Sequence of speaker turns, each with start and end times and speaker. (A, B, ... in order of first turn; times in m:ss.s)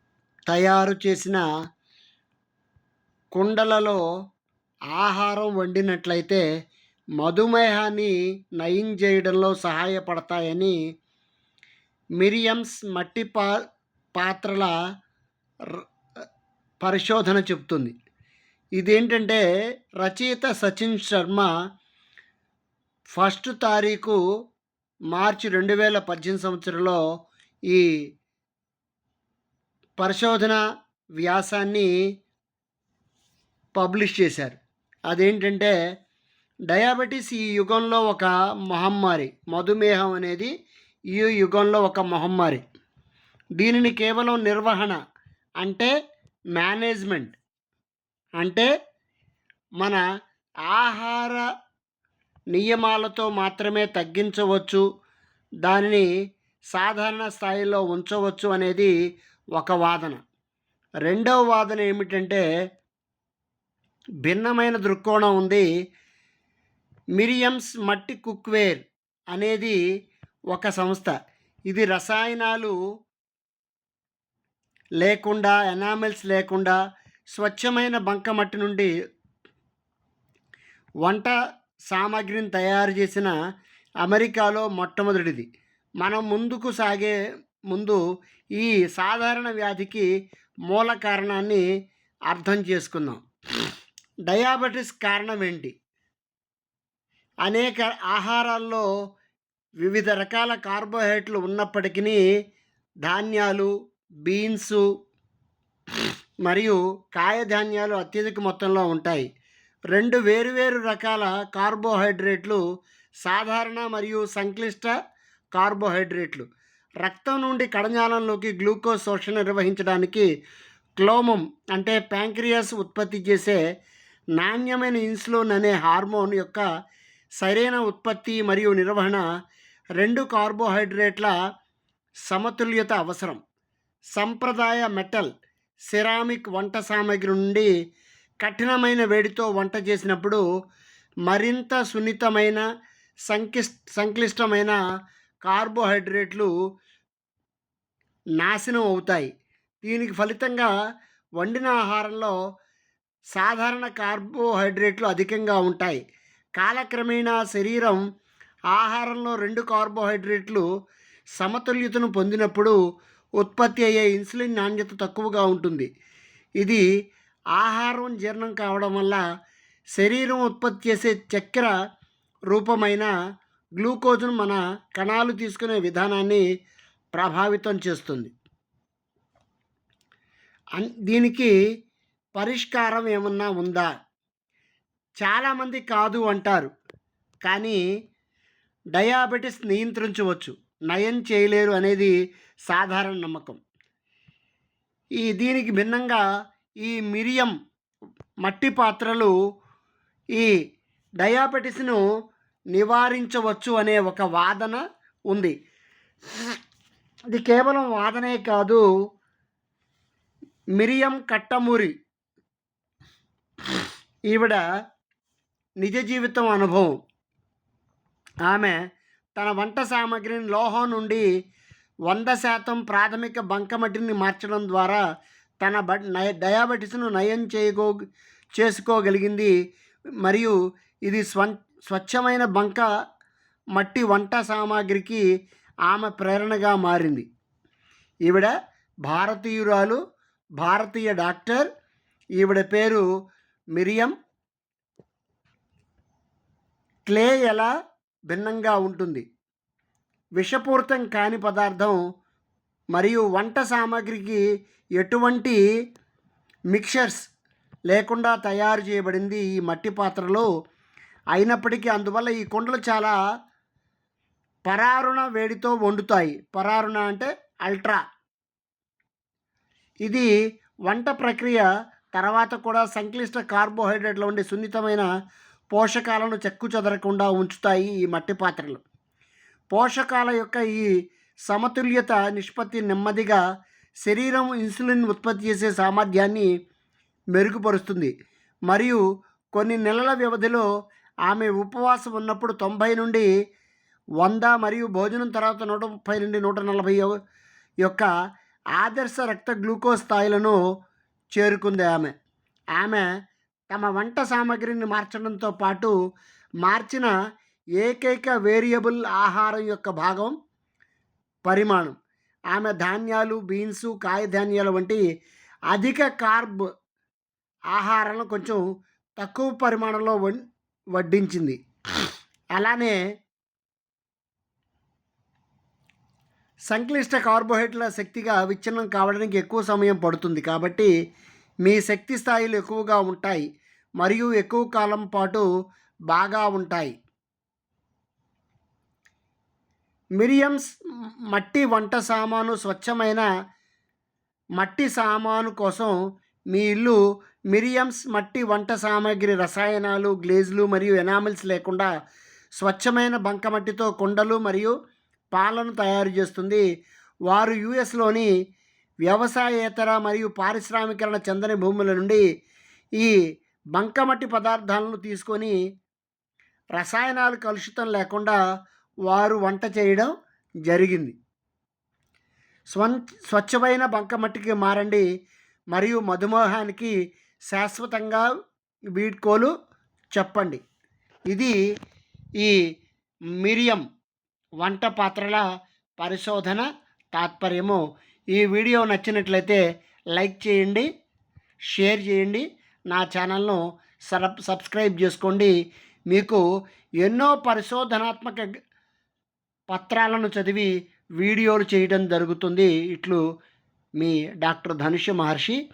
0:00.5-0:01.4 A
0:03.3-0:04.0 A
0:05.0-0:06.4 A
0:07.2-0:10.7 A
0:12.2-0:13.5 A
0:14.2-0:14.7 A
0:16.8-0:17.9 A
0:18.8-0:19.4 A
0:20.0-0:21.5 A
0:23.1-0:24.2 A
0:25.1-0:27.0 A
0:30.0-0:30.6 A
0:31.2-0:31.9 A
0:33.7-0:34.6 A
0:35.1-0:35.7 A
0:36.7-0:40.5 A
0:41.1-0:42.6 A
0:43.6-0:45.0 A
0:45.6-0:45.9 A
0:46.5-0:47.3 A
0:48.4-0:48.7 A
0:50.7-0:51.4 A
0:52.5-0:54.8 A
0:55.6-0:56.0 A
0:56.7-0:58.9 A
0:59.5-1:00.2 A
1:01.0-1:02.4 A
1:04.2-1:05.6 A
1:07.2-1:09.8 A
1:10.5-1:11.1 A
1:11.7-1:12.7 A
1:15.0-1:16.8 A
1:17.3-1:18.9 A
1:21.0-1:21.3 A
1:21.9-1:23.3 A
1:24.0-1:25.4 A
1:26.0-1:27.1 A
1:27.7-1:28.0 A
1:28.6-1:30.0 A
1:30.7-1:31.6 A
1:32.3-1:33.2 A
1:34.3-1:35.7 A
1:37.4-1:38.8 A
1:39.8-1:42.2 A
1:43.0-1:43.7 A
1:44.2-1:44.8 A
1:46.4-1:49.3 A
1:49.9-1:52.6 A
1:53.2-1:54.9 A
1:55.5-1:56.4 A
1:57.0-2:00.3 A
2:01.0-2:03.6 A
2:04.4-2:06.6 A
2:07.4-2:09.2 A
2:10.0-2:11.3 A
2:12.3-2:13.4 A
2:14.2-2:15.3 A
2:15.9-2:17.7 A
2:18.4-2:20.4 A
2:21.3-2:22.6 A
2:23.3-2:24.7 A
2:25.4-2:26.5 A
2:28.4-2:29.3 A
2:29.8-2:30.7 A
2:31.4-2:32.3 A
2:33.3-2:36.0 A
2:36.6-2:38.0 A
2:38.7-2:40.6 A
2:41.4-2:42.7 A
2:43.4-2:45.9 A
2:47.6-2:49.2 A
2:50.0-2:51.7 A
2:52.5-2:53.1 A
2:53.8-2:56.4 A
2:57.1-2:58.3 A
3:00.8-3:01.5 A
3:02.4-3:03.9 A
3:05.2-3:06.7 A
3:07.4-3:07.8 A
3:08.9-3:12.1 A
3:12.7-3:13.6 A
3:15.2-3:16.2 A
3:16.8-3:17.5 A
3:18.4-3:19.3 A
3:21.2-3:22.0 A
3:22.7-3:25.5 A
3:27.3-3:28.8 A
3:30.8-3:31.9 A
3:34.3-3:34.6 A
3:35.8-3:36.9 A
3:38.4-3:38.8 A
3:39.4-3:41.2 A
3:42.1-3:45.0 A
3:45.6-3:47.9 A
3:48.6-3:49.5 A
3:50.2-3:52.8 A
3:53.7-3:55.2 A
3:55.9-3:57.2 A
3:58.2-3:58.5 A
3:59.0-4:00.0 A
4:00.6-4:01.6 A
4:02.4-4:03.0 A
4:03.8-4:04.1 A
4:07.1-4:07.7 A
4:08.3-4:09.2 A
4:10.4-4:12.0 A
4:12.9-4:14.4 A
4:15.0-4:15.6 A
4:16.7-4:17.2 A
4:17.9-4:20.5 A
4:21.3-4:23.1 A
4:24.6-4:28.0 A
4:30.9-4:35.1 A
4:35.7-4:38.8 A
4:39.7-4:40.9 A
4:41.5-4:43.4 A
4:44.0-4:46.5 A
4:47.3-4:48.1 A
4:48.7-4:49.0 A
4:49.5-4:50.6 A
4:51.3-4:53.3 A
4:54.2-4:57.1 A
4:58.8-5:00.6 A
5:01.3-5:02.1 A
5:02.8-5:03.0 A
5:03.7-5:05.9 A
5:06.6-5:07.1 A
5:07.8-5:10.3 A
5:11.4-5:11.9 A
5:12.5-5:15.0 A
5:15.7-5:16.6 A
5:17.7-5:18.6 A
5:19.2-5:20.4 A
5:20.9-5:21.6 A
5:22.6-5:23.0 A
5:26.7-5:30.9 A
5:31.6-5:33.4 A
5:34.0-5:35.4 A
5:36.1-5:36.9 A
5:40.2-5:40.7 A
5:41.3-5:43.2 A
5:44.6-5:45.9 A
5:46.5-5:47.0 A
5:47.5-5:51.9 A
5:52.6-5:54.7 A
5:55.3-5:56.6 A
5:57.3-5:58.3 A
5:59.0-6:02.2 A
6:03.7-6:05.5 A
6:06.8-6:08.4 A
6:09.1-6:10.1 A
6:10.6-6:11.1 A
6:12.7-6:15.0 A
6:15.7-6:16.9 A
6:17.5-6:18.2 A
6:18.9-6:19.5 A
6:20.1-6:20.6 A
6:21.3-6:21.5 A
6:23.4-6:23.8 A
6:24.6-6:25.4 A
6:26.0-6:27.8 A
6:28.3-6:29.6 A
6:30.1-6:30.8 A
6:31.7-6:35.5 A
6:36.1-6:36.4 A
6:37.0-6:38.5 A
6:39.7-6:43.2 A
6:44.0-6:45.6 A